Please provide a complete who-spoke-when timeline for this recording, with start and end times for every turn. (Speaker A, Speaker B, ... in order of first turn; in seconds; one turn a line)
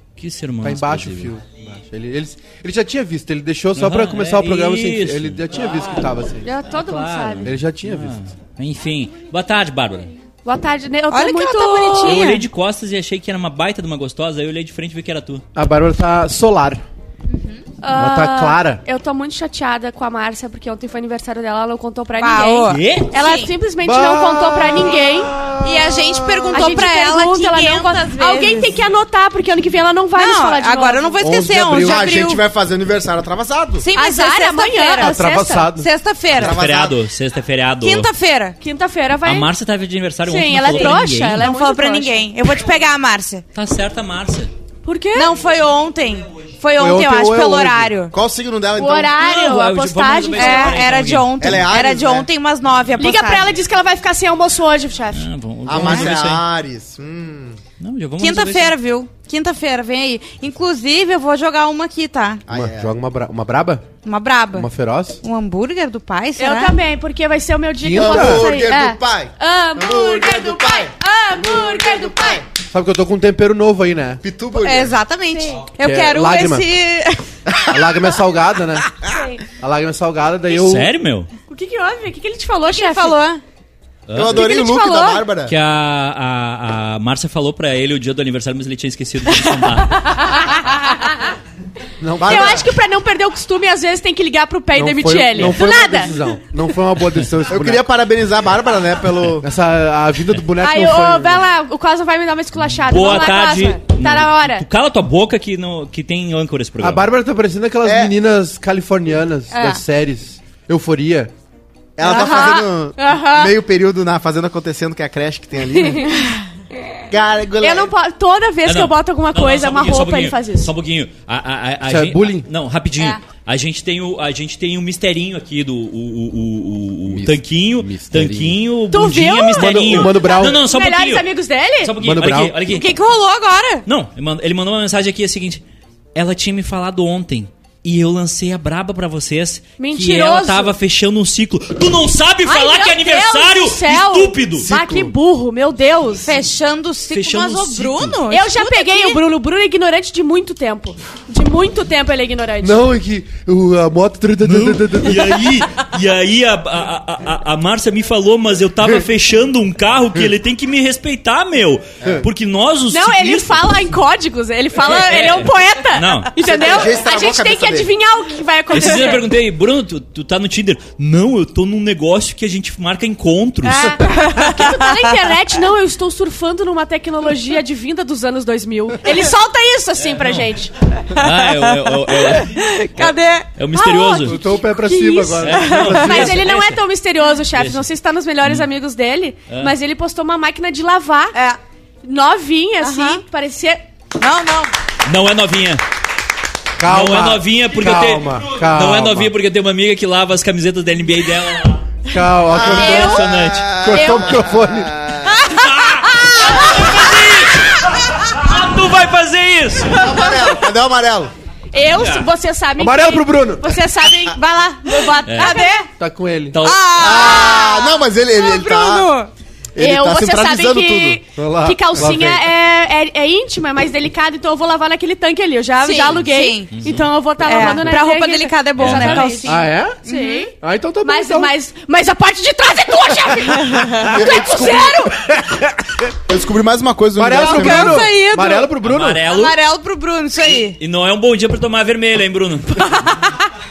Speaker A: 0.2-1.4
Speaker B: 0.6-6.5
Speaker A: 3.8-6.1
Speaker C: 6.4-7.5
Speaker A: 6.7-10.1
Speaker B: 7.5-8.2
Speaker C: 10.4-12.3
Speaker D: 11.1-12.4
Speaker A: 12.0-15.4
Speaker B: 15.6-16.8
Speaker D: 17.3-17.7
Speaker C: 17.8-25.3
Speaker B: 17.9-18.8
Speaker D: 22.2-23.5
Speaker A: 22.7-23.1
Speaker B: 23.8-26.5
Speaker D: 25.6-28.8
Speaker C: 26.5-31.4
Speaker D: 30.2-32.4
Speaker B: 31.2-32.3
Speaker E: 31.8-33.9
Speaker D: 33.8-35.2
Speaker C: 34.0-35.7
Speaker B: 35.0-35.9
Speaker D: 35.7-36.6
Speaker E: 36.3-37.0
Speaker A: 36.4-38.1
Speaker D: 37.8-38.6
Speaker C: 38.6-39.5
Speaker A: 39.2-41.5
Speaker C: 40.2-42.4
Speaker D: 40.7-43.4
Speaker A: 43.5-44.5
Speaker C: 44.8-45.3
Speaker D: 45.1-48.1
Speaker B: 46.8-48.0
Speaker E: 48.1-49.2
Speaker C: 48.8-50.8
Speaker A: 49.2-51.5
Speaker D: 50.4-53.5
Speaker E: 51.4-52.3
Speaker C: 53.0-55.3
Speaker A: 55.1-56.4
Speaker E: 55.7-57.6
Speaker D: 55.7-56.1
Speaker A: 57.8-58.8
Speaker D: 58.2-62.4
Speaker E: 62.5-62.9
Speaker B: 62.5-63.9
Speaker D: 64.0-64.7
Speaker B: 64.5-65.2
Speaker D: 65.2-66.8
Speaker C: 66.4-72.4
Speaker B: 67.8-68.5
Speaker E: 67.9-72.4
Speaker B: 72.6-74.2
Speaker E: 74.2-75.0
Speaker D: 74.6-77.3
Speaker C: 75.3-75.6
Speaker B: 75.8-76.7
Speaker E: 77.5-78.1
Speaker B: 77.7-79.0
Speaker C: 79.1-79.5
Speaker B: 79.5-80.9
Speaker A: 80.5-81.3
Speaker C: 81.5-83.2
Speaker D: 82.7-83.4
Speaker A: 84.1-84.5
Speaker E: 84.2-85.5
Speaker C: 84.2-85.3
Speaker A: 85.5-90.4
Speaker C: 90.0-91.2
Speaker B: 92.0-92.6
Speaker E: 92.2-92.7
Speaker C: 92.2-96.3
Speaker B: 94.7-97.8
Speaker E: 97.4-99.5
Speaker B: 99.4-101.5
Speaker C: 100.6-104.7
Speaker A: 102.8-107.1
Speaker B: 106.8-111.3
Speaker E: 107.8-108.1
Speaker C: 109.5-109.8
Speaker E: 112.0-116.3
Speaker C: 112.0-113.5
Speaker C: 115.7-116.3
Speaker E: 117.1-117.9
Speaker C: 117.6-120.7
Speaker A: 118.7-131.3
Speaker B: 121.8-122.5
Speaker B: 127.1-128.6
Speaker C: 128.9-131.9
Speaker B: 129.6-130.6
Speaker A: 131.8-132.9
Speaker B: 132.0-132.6
Speaker D: 132.6-133.9
Speaker A: 133.9-135.6
Speaker A: 136.2-144.7
Speaker C: 139.8-140.7
Speaker C: 142.4-146.4
Speaker E: 144.6-145.1
Speaker D: 146.2-149.2
Speaker A: 147.1-148.2
Speaker C: 148.3-152.8
Speaker B: 152.6-155.4
Speaker A: 154.4-163.8
Speaker C: 162.9-169.3
Speaker A: 164.8-166.3
Speaker E: 166.4-167.9
Speaker A: 168.7-174.0
Speaker C: 173.7-180.7
Speaker D: 173.7-175.0
Speaker A: 180.0-180.6
Speaker A: 181.1-184.4
Speaker D: 181.2-183.5
Speaker C: 183.7-191.4
Speaker B: 184.2-186.3
Speaker A: 185.4-186.8
Speaker D: 185.6-186.4
Speaker A: 187.5-187.8
Speaker D: 191.3-191.6
Speaker C: 192.0-193.8
Speaker D: 192.8-193.2
Speaker D: 194.2-194.7
Speaker A: 195.1-195.8
Speaker B: 196.8-199.3
Speaker A: 196.9-202.0
Speaker B: 202.1-205.1
Speaker A: 202.5-203.9
Speaker C: 202.6-203.3
Speaker E: 202.6-205.5
Speaker C: 203.9-204.4
Speaker A: 205.5-210.3
Speaker C: 206.3-206.8
Speaker E: 209.9-211.3
Speaker C: 211.7-215.8
Speaker A: 211.9-212.3
Speaker B: 212.8-213.8
Speaker D: 214.9-215.9
Speaker A: 215.3-215.6
Speaker B: 216.0-216.6
Speaker A: 216.5-217.2
Speaker D: 216.6-219.3
Speaker E: 216.9-219.2
Speaker E: 219.8-221.2
Speaker C: 219.8-230.5
Speaker B: 221.3-222.5
Speaker D: 225.8-226.8
Speaker A: 226.8-227.1
Speaker D: 227.4-230.5
Speaker A: 228.8-229.4
Speaker B: 229.5-230.0
Speaker B: 230.6-231.5
Speaker C: 231.0-235.2
Speaker E: 234.0-235.1
Speaker E: 236.3-238.1
Speaker B: 237.2-239.2
Speaker D: 237.4-238.7
Speaker A: 238.8-239.6
Speaker D: 239.2-240.8
Speaker A: 240.8-243.3